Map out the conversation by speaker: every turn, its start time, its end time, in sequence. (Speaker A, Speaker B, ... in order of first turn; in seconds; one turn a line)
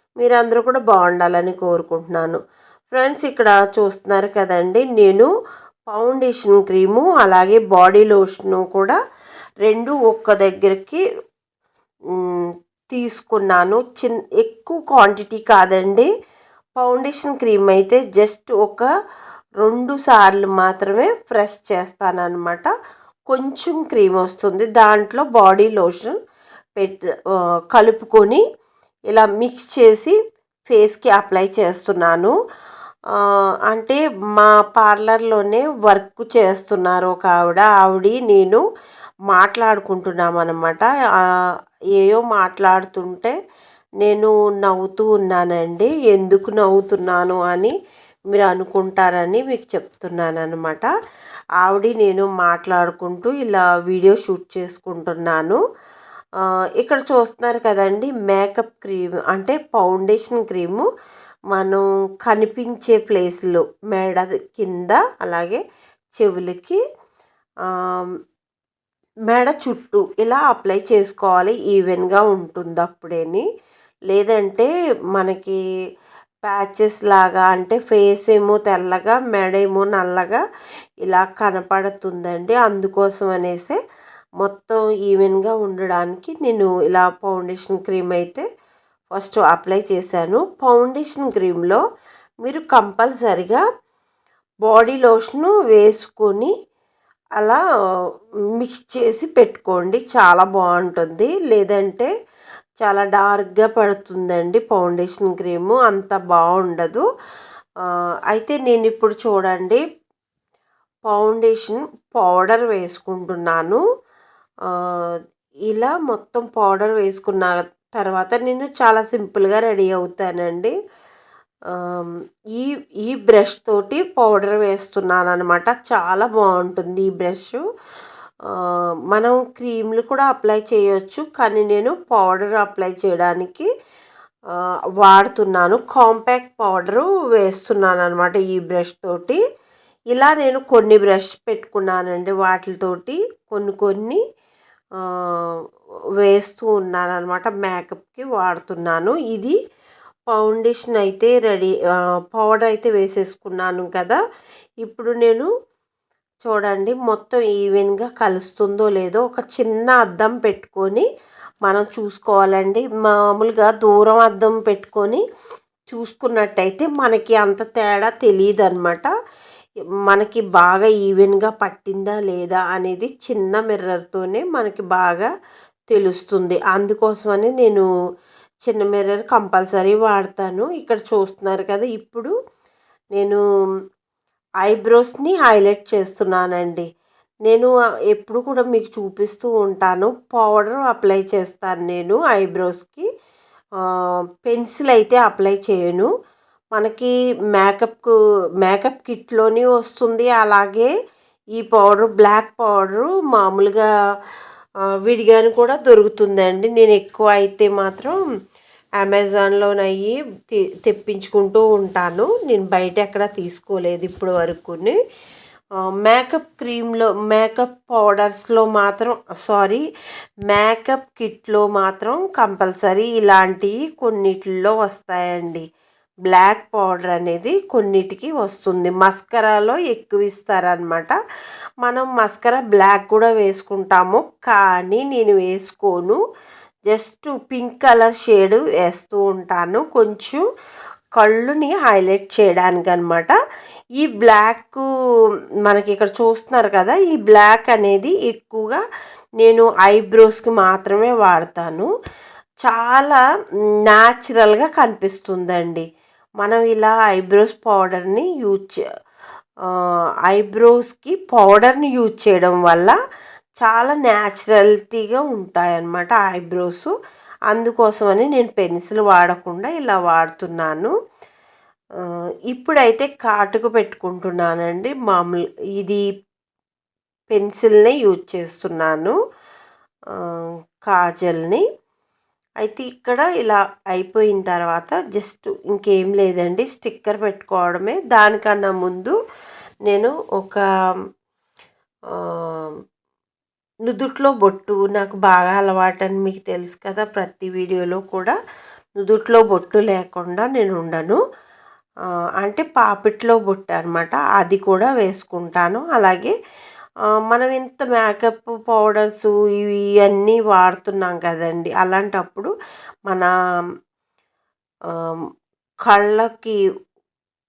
Speaker A: 0.2-2.4
Speaker A: 2.9-5.3
Speaker A: 5.9-8.9
Speaker A: 9.6-11.0
Speaker A: 12.9-16.1
Speaker A: 16.8-18.9
Speaker A: 19.6-22.7
Speaker A: 23.3-26.2
Speaker A: 27.7-28.4
Speaker A: 29.1-30.1
Speaker A: 30.7-32.3
Speaker A: 33.7-38.6
Speaker A: 39.3-40.9
Speaker A: 42.0-43.3
Speaker A: 44.0-47.7
Speaker A: 48.3-50.9
Speaker A: 51.6-55.6
Speaker A: 56.8-60.8
Speaker A: 61.5-65.6
Speaker A: 66.2-66.8
Speaker A: 69.3-73.5
Speaker A: 74.1-75.5
Speaker A: 76.4-80.4
Speaker A: 81.0-83.8
Speaker A: 84.4-88.4
Speaker A: 89.1-91.8
Speaker A: 92.4-93.6
Speaker A: 94.7-96.5
Speaker A: 98.6-102.1
Speaker A: 102.8-107.0
Speaker A: 108.3-109.8
Speaker A: 111.1-113.8
Speaker A: 115.7-120.7
Speaker A: 121.8-127.6
Speaker A: 129.1-133.7
Speaker A: 135.0-139.4
Speaker A: 140.1-144.2
Speaker A: 146.2-149.6
Speaker A: 150.3-151.7
Speaker A: 152.3-154.2
Speaker A: 154.8-155.5
Speaker A: 156.4-161.1
Speaker A: 161.6-165.2
Speaker A: 165.9-169.1
Speaker A: 170.1-175.3
Speaker A: 175.9-177.8
Speaker A: 178.7-182.3
Speaker A: 184.6-186.8
Speaker A: 187.5-193.1
Speaker A: 194.4-196.1
Speaker A: 196.8-200.9
Speaker A: 201.6-203.8
Speaker A: 205.1-208.2
Speaker A: 209.0-210.2
Speaker A: 210.8-214.9
Speaker A: 216.0-219.8
Speaker A: 220.5-225.6
Speaker A: 226.3-231.1
Speaker A: 231.8-236.2
Speaker A: 236.9-240.4
Speaker A: 241.2-243.3
Speaker A: 244.0-244.8
Speaker A: 245.7-248.8
Speaker A: 249.4-251.9
Speaker A: 252.6-253.2
Speaker A: 253.9-255.8
Speaker A: 256.4-258.8
Speaker A: 260.3-262.9
Speaker A: 263.6-266.9
Speaker A: 267.5-270.9
Speaker A: 272.5-276.0
Speaker A: 277.3-279.1
Speaker A: 280.9-281.6
Speaker A: 282.6-289.1
Speaker A: 289.9-290.6
Speaker A: 293.9-298.3
Speaker A: 299.0-301.2
Speaker A: 302.4-306.3
Speaker A: 307.3-312.5
Speaker A: 315.9-316.6